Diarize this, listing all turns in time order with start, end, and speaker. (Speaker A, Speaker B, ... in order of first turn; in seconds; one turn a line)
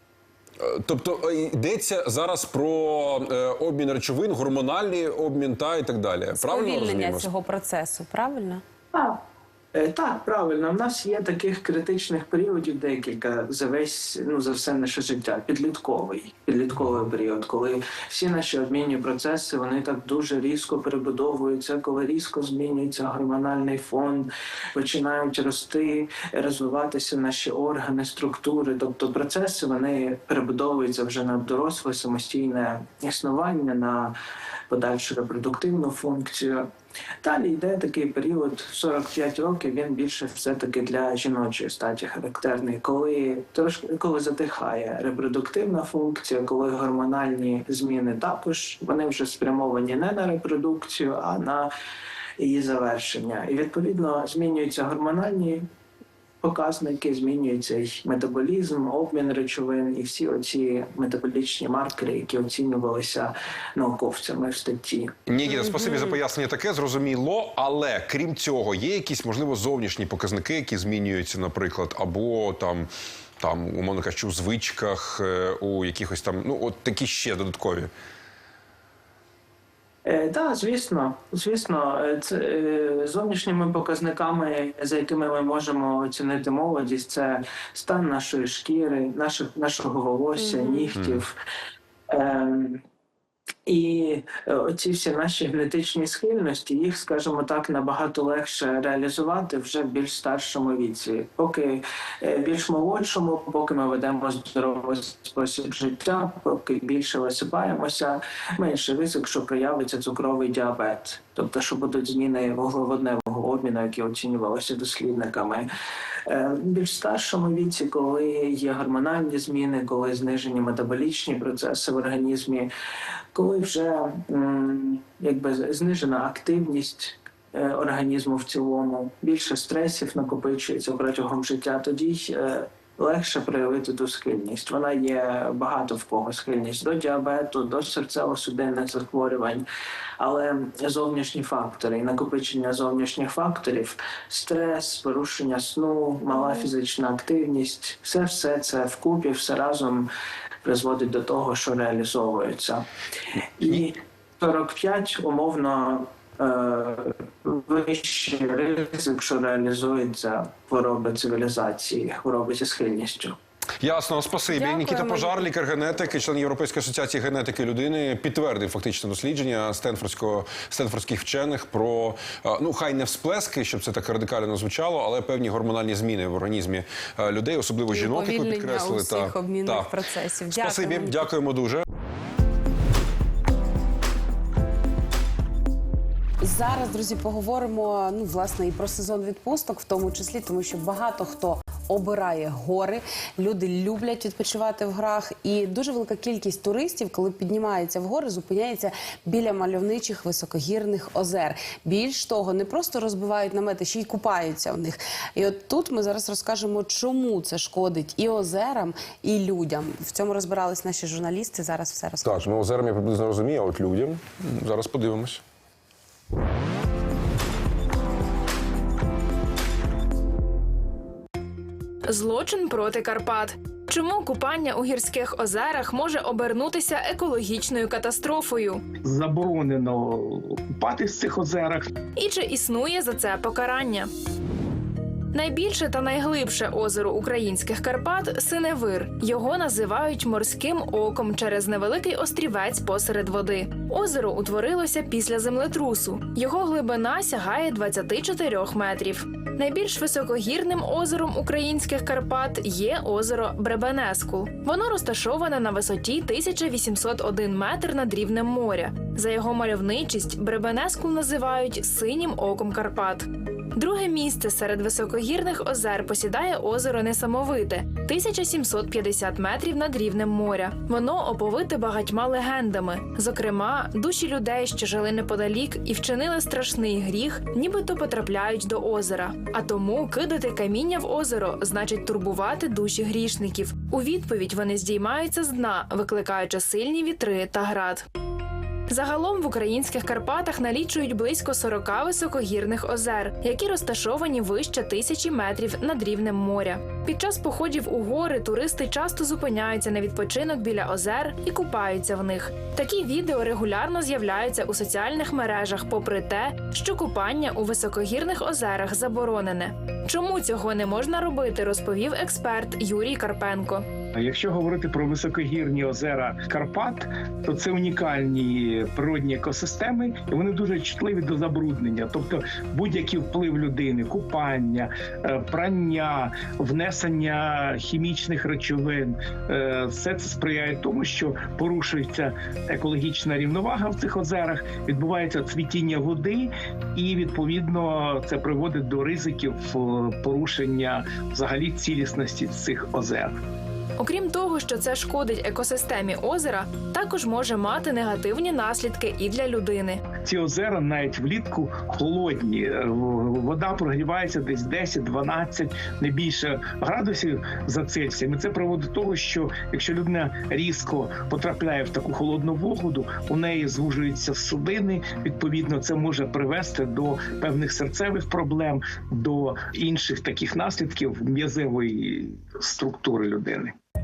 Speaker A: 0.6-7.3
Speaker B: 6.3-8.6
Speaker C: 8.9-9.2
Speaker C: 9.7-34.1
Speaker C: 34.7-36.7
Speaker C: 37.2-51.7
Speaker C: 52.4-55.7
Speaker C: 56.4-65.2
Speaker A: 65.3-72.9
Speaker A: 73.4-77.9
Speaker C: 80.0-91.3
Speaker B: 90.5-90.9
Speaker A: 90.9-91.2
Speaker C: 92.1-92.8
Speaker C: 93.7-115.7
Speaker C: 116.2-122.7
Speaker C: 123.3-139.7
Speaker C: 140.2-150.1
Speaker C: 150.6-152.8
Speaker C: 153.6-163.4
Speaker A: 163.8-179.9
Speaker B: 164.5-165.5
Speaker B: 177.9-181.3
Speaker A: 180.5-181.8
Speaker B: 186.4-212.4
Speaker A: 212.2-215.4
Speaker D: 222.1-228.8
Speaker E: 229.0-231.9
Speaker D: 232.2-234.1
Speaker D: 235.3-288.0
Speaker D: 288.9-313.9
Speaker E: 314.1-343.4
Speaker D: 344.0-350.0
Speaker E: 350.2-373.7